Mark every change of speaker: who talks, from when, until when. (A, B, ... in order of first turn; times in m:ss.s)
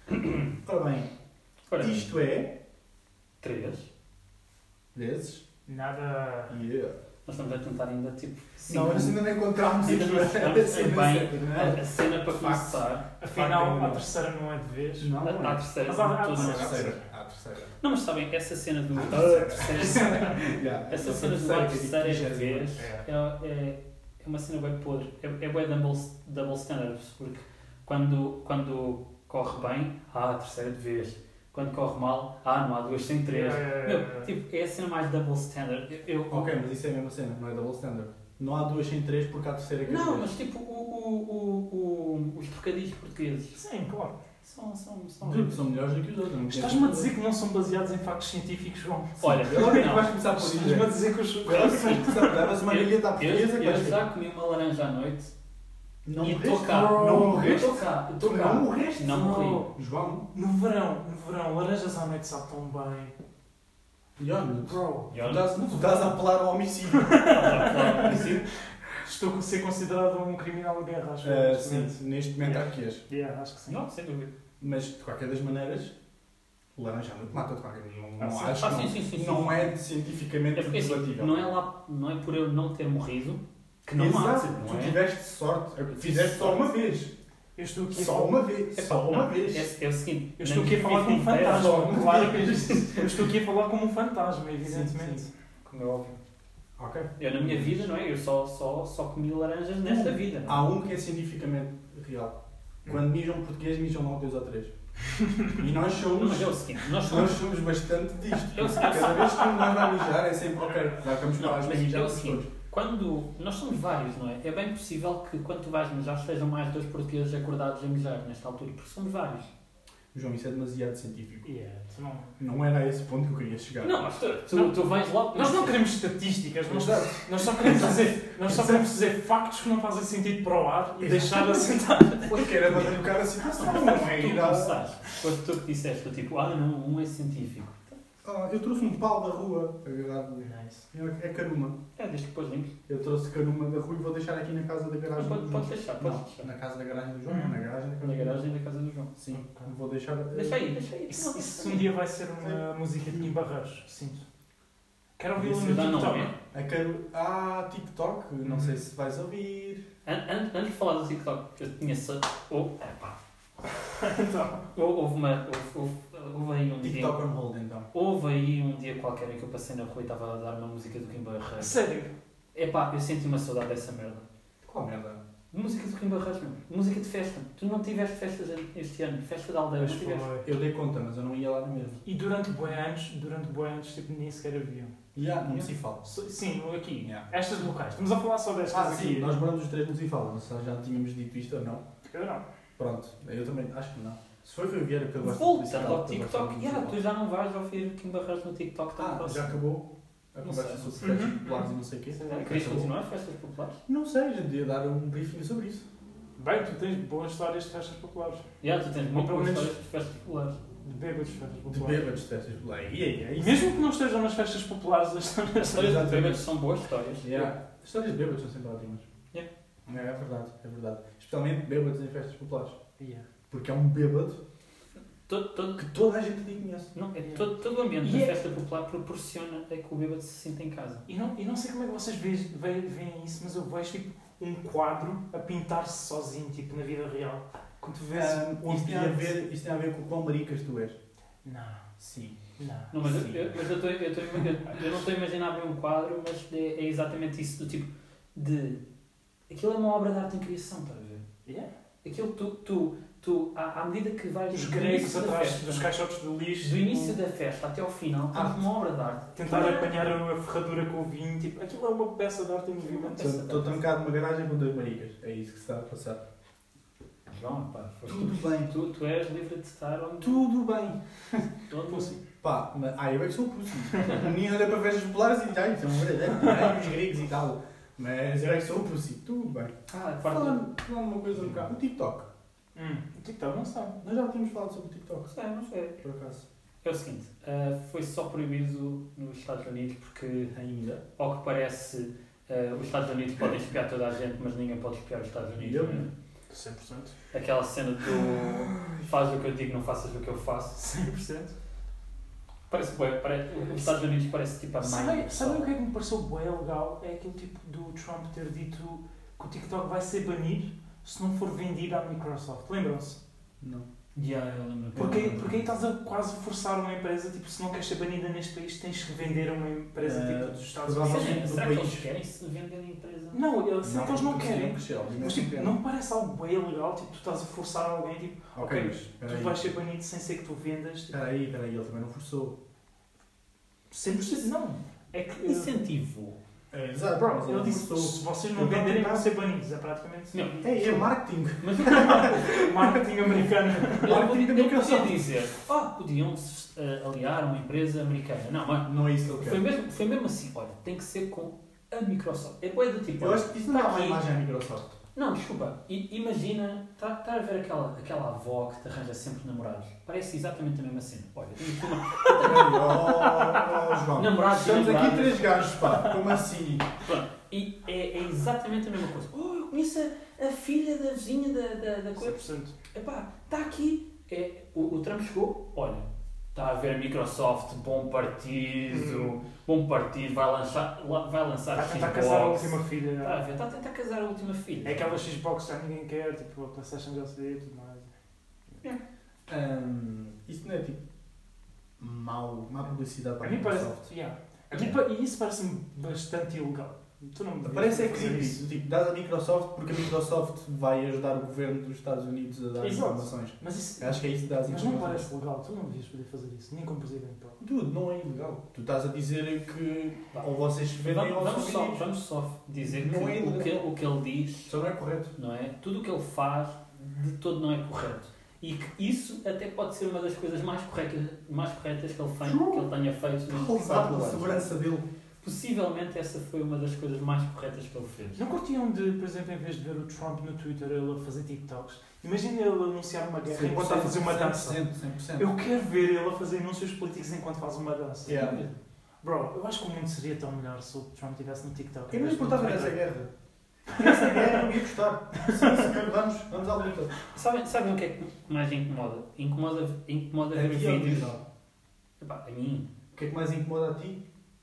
0:00.5-0:01.1 A
0:01.7-0:02.1 B
0:01.8-0:02.5 A
0:03.4-0:03.9 B
0:04.9-0:05.4 A
0:05.6-0:06.6 C
0:06.5-0:06.9 A
0:07.2-0:13.1 B
0:08.7-0:14.1 A
0:13.2-0:15.1 C
0:15.0-0:15.6 A
0:15.2-0:17.0 B
0:15.8-0:17.0 C
0:16.3-0:17.7 A
0:17.8-0:36.6 B
0:19.0-0:22.9 A
0:19.8-0:20.3 C
0:22.8-0:23.0 C
0:33.3-0:34.3 C
0:36.3-0:40.3 A
0:39.8-0:43.6 B
0:43.6-0:44.2 C
0:44.4-0:45.6 B
0:45.2-0:47.1 A
0:46.5-0:52.3 C
0:49.2-0:50.1 B
0:49.2-0:54.0 A
0:51.5-0:55.3 B
0:56.0-1:00.2 A
0:56.2-0:59.7 B
0:57.0-0:57.7 C
0:59.2-0:59.7 C
1:00.3-1:03.1 C
1:04.2-1:07.4 A
1:04.6-1:05.1 C
1:05.1-1:06.0 B
1:07.0-1:08.3 C
1:07.2-1:08.5 B
1:09.0-1:13.8 C
1:11.2-1:13.0 A
1:13.7-1:14.3 B
1:14.6-1:15.9 A
1:16.8-1:21.4 A
1:18.2-1:18.6 C
1:18.4-1:19.7 B
1:20.5-1:25.0 B
1:24.0-1:27.1 A
1:25.9-1:26.7 B
1:27.6-1:28.4 C
1:27.9-1:29.7 A
1:28.7-1:33.0 B
1:30.4-1:35.3 C
1:31.8-1:33.1 A
1:34.6-1:35.2 A
1:35.6-1:36.2 B
1:36.8-1:37.7 A
1:37.2-1:40.6 B
1:39.8-1:42.3 A
1:42.8-1:44.7 A
1:45.4-1:52.5 A
1:46.1-1:47.4 B
1:48.4-1:49.6 B
1:51.4-1:59.5 B
2:00.1-2:01.5 A
2:01.4-2:02.3 C
2:02.4-2:03.9 A
2:03.8-2:05.8 B
2:04.5-2:12.5 C
2:06.6-2:08.8 A
2:11.0-2:11.7 A
2:12.2-2:18.0 B
2:12.3-2:14.8 A
2:13.6-2:14.0 C
2:18.2-2:21.8 A
2:20.4-2:20.8 C
2:22.0-2:22.7 B
2:22.9-2:28.4 A
2:25.2-2:26.5 B
2:27.3-2:27.6 C
2:28.0-2:29.1 B
2:29.1-2:30.7 A
2:29.3-2:29.7 C
2:30.3-2:31.9 B
2:31.1-2:34.2 C
2:35.2-2:36.3 C
2:35.4-2:36.0 A
2:35.6-2:36.3 B
2:36.5-2:39.8 A
2:38.4-2:38.7 C
2:40.0-2:43.2 B
2:43.9-2:44.6 C
2:44.7-2:47.2 B
2:46.8-2:47.9 A
2:47.9-2:51.8 B
2:51.6-2:52.1 C
2:52.5-2:54.3 B
2:54.6-2:55.2 A
2:55.5-3:00.4 B
2:59.8-3:00.5 C
3:00.4-3:02.0 A
3:02.0-3:04.9 C
3:05.1-3:06.0 A
3:06.0-3:09.4 C
3:08.7-3:11.8 A
3:12.0-3:12.4 C
3:12.8-3:17.0 A
3:15.2-3:19.6 B
3:19.0-3:22.9 A
3:20.4-3:21.2 B
3:21.0-3:22.8 C
3:22.2-3:23.8 B
3:23.9-3:25.8 A
3:26.4-3:28.4 C
3:28.6-3:30.6 B
3:29.1-3:29.7 C
3:30.8-3:32.0 C
3:31.7-3:33.7 A
3:33.4-3:36.1 C
3:35.7-3:37.5 B
3:35.7-3:36.4 A
3:37.2-3:39.1 A
3:39.9-3:42.8 A
3:43.0-3:43.2 C
3:43.5-3:44.4 A
3:45.3-3:45.8 B
3:45.8-3:46.9 A
3:46.9-3:51.1 B
3:48.0-3:48.4 C
3:51.1-3:59.4 C
3:58.1-4:01.0 A
4:01.4-4:01.8 C
4:02.0-4:02.4 A
4:02.6-4:02.9 C
4:02.9-4:08.8 B
4:03.0-4:03.5 A
4:09.5-4:11.2 B
4:12.0-4:15.9 B
4:14.5-4:17.2 C
4:16.6-4:20.1 B
4:18.3-4:18.6 A
4:19.4-4:23.2 C
4:22.8-4:23.8 B
4:23.2-4:26.2 A
4:27.3-4:30.4 B
4:28.0-4:28.7 A
4:30.2-4:31.5 A
4:31.7-4:32.2 B
4:31.8-4:32.2 C
4:32.4-4:42.3 A
4:39.9-4:40.6 B
4:42.7-4:44.0 C
4:44.0-4:45.3 A
4:45.3-4:46.0 B
4:46.0-4:46.4 A
4:46.8-4:50.5 B
4:50.5-4:51.0 A
4:51.2-4:56.1 B
4:55.6-4:56.0 A
4:56.5-4:57.1 C
4:57.3-5:01.0 B
4:58.4-4:59.1 A
5:00.8-5:01.5 C
5:02.7-5:05.7 B
5:04.8-5:13.2 C
5:13.6-5:13.9 A
5:14.1-5:15.6 B
5:14.9-5:15.6 A
5:14.9-5:21.4 C
5:20.0-5:22.0 A
5:20.9-5:23.4 B
5:23.3-5:31.2 C
5:23.8-5:25.7 A
5:28.5-5:29.6 A
5:31.1-5:32.5 A
5:33.9-5:35.7 C
5:35.4-5:36.4 B
5:36.7-5:39.3 A
5:37.1-5:40.4 C
5:40.3-5:42.5 B
5:40.6-5:42.7 A
5:42.1-5:44.2 C
5:43.9-5:54.2 B
5:44.0-5:45.3 A
5:48.8-5:49.6 A
5:53.2-5:54.9 A
5:55.1-6:06.1 B
6:02.3-6:06.9 A
6:07.0-6:25.2 B
6:12.2-6:12.7 C
6:18.9-6:19.3 C
6:21.7-6:23.4 C
6:24.8-6:28.1 C
6:29.5-6:31.0 A
6:32.0-6:34.1 A
6:33.4-6:38.6 C
6:37.6-6:45.2 A
6:42.8-6:47.6 C
6:47.6-6:52.0 A
6:50.3-6:54.7 B
6:52.8-6:53.8 A
6:54.7-6:55.3 A
6:55.4-7:04.7 B
7:02.4-7:02.9 A
7:03.5-7:05.0 A
7:05.4-7:08.4 B
7:08.3-7:14.8 C
7:13.5-7:15.5 A
7:15.4-7:18.5 C
7:18.2-7:18.6 A
7:18.3-7:18.7 B
7:19.2-7:22.9 C
7:22.1-7:23.3 A
7:23.9-7:27.1 A
7:24.0-7:24.5 C
7:27.3-7:31.3 B
7:30.5-7:31.4 A
7:32.2-7:32.9 B
7:33.1-7:34.2 A